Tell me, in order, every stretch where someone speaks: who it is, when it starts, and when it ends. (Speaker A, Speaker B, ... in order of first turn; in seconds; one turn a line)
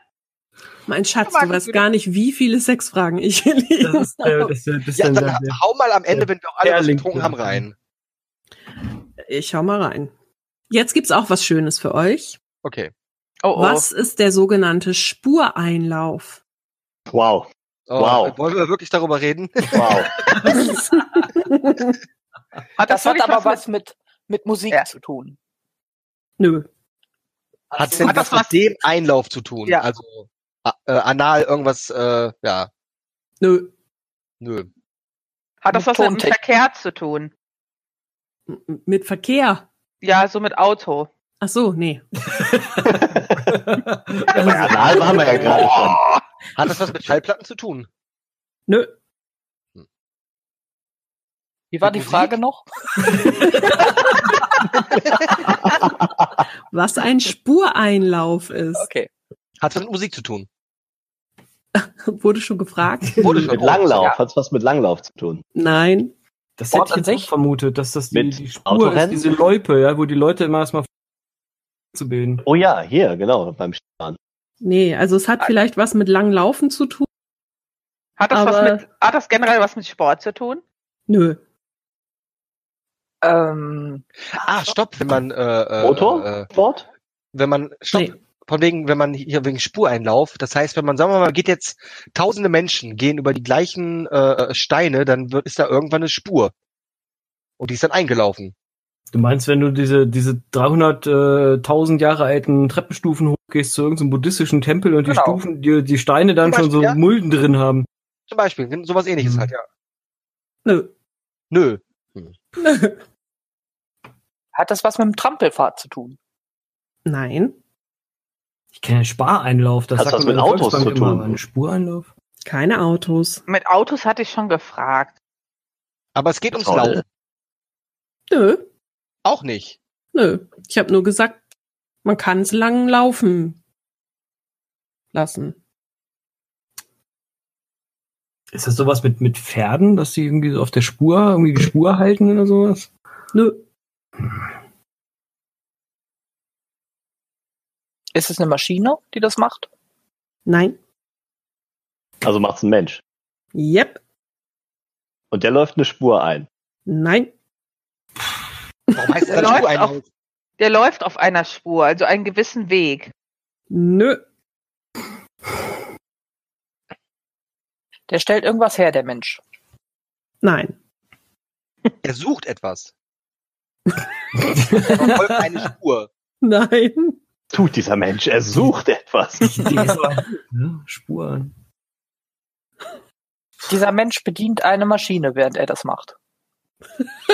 Speaker A: 0.9-4.5
Speaker B: 1.3-1.8
Speaker C: 3.8-5.6
Speaker D: 4.9-7.7
Speaker C: 6.1-7.6
Speaker A: 9.2-10.1
Speaker A: 10.7-12.4
Speaker D: 12.6-12.9
Speaker B: 13.4-13.8
Speaker A: 13.5-16.4
Speaker E: 17.1-18.4
Speaker D: 17.9-20.3
Speaker E: 19.7-20.1
Speaker A: 20.4-21.9
Speaker B: 22.8-23.6
Speaker F: 22.9-25.4
Speaker A: 26.4-26.7
Speaker D: 27.7-32.7
Speaker B: 27.9-28.5
Speaker A: 33.4-33.7
Speaker D: 34.4-34.7
Speaker B: 35.6-37.3
Speaker F: 35.7-36.3
Speaker A: 38.5-39.6
Speaker B: 40.0-41.1
Speaker A: 41.4-42.0
Speaker C: 42.2-45.7
Speaker E: 43.0-43.4
Speaker E: 44.4-46.0
Speaker D: 45.3-45.7
Speaker D: 46.5-47.9
Speaker F: 51.7-52.6
Speaker D: 51.9-52.3
Speaker A: 56.7-58.9
Speaker F: 58.7-59.1
Speaker D: 59.6-60.5
Speaker A: 61.7-63.5
Speaker D: 63.2-64.1
Speaker E: 63.4-65.4
Speaker A: 65.5-66.1
Speaker C: 66.6-70.9
Speaker F: 66.7-67.3
Speaker E: 68.1-69.2
Speaker C: 71.9-72.4
Speaker E: 72.4-74.2
Speaker A: 74.6-77.1
Speaker B: 78.2-80.6
Speaker A: 78.3-78.8
Speaker A: 81.1-81.4
Speaker F: 83.2-84.0
Speaker D: 84.3-86.5
Speaker E: 85.8-86.8
Speaker D: 87.3-96.5
Speaker D: 97.6-98.5
Speaker C: 99.1-107.9
Speaker F: 105.0-105.4
Speaker D: 106.4-107.0
Speaker D: 108.3-109.6
Speaker C: 109.2-109.5
Speaker A: 110.6-110.9
Speaker D: 111.5-112.3
Speaker A: 112.6-113.0
Speaker F: 114.5-116.2
Speaker A: 117.0-117.5
Speaker C: 118.7-122.1
Speaker E: 120.0-121.4
Speaker A: 122.5-123.4
Speaker B: 123.5-125.1
Speaker D: 126.1-127.0
Speaker E: 126.5-127.0
Speaker A: 128.3-128.7
Speaker D: 129.2-129.8
Speaker A: 130.1-131.4
Speaker A: 132.0-133.6
Speaker A: 135.1-135.6
Speaker C: 138.5-142.9
Speaker A: 143.3-143.6
Speaker F: 148.1-149.7
Speaker A: 150.4-150.8
Speaker E: 152.2-153.0
Speaker A: 153.5-154.0
Speaker E: 155.3-156.5
Speaker A: 156.8-157.3
Speaker D: 158.9-160.1
Speaker B: 159.3-159.9
Speaker B: 160.6-163.1
Speaker A: 163.7-164.2
Speaker F: 168.1-169.4
Speaker A: 170.4-170.7
Speaker D: 172.0-172.9
Speaker C: 174.5-175.4
Speaker D: 174.8-176.1
Speaker A: 176.4-177.2
Speaker E: 177.5-179.8
Speaker C: 179.4-181.5
Speaker F: 183.7-186.1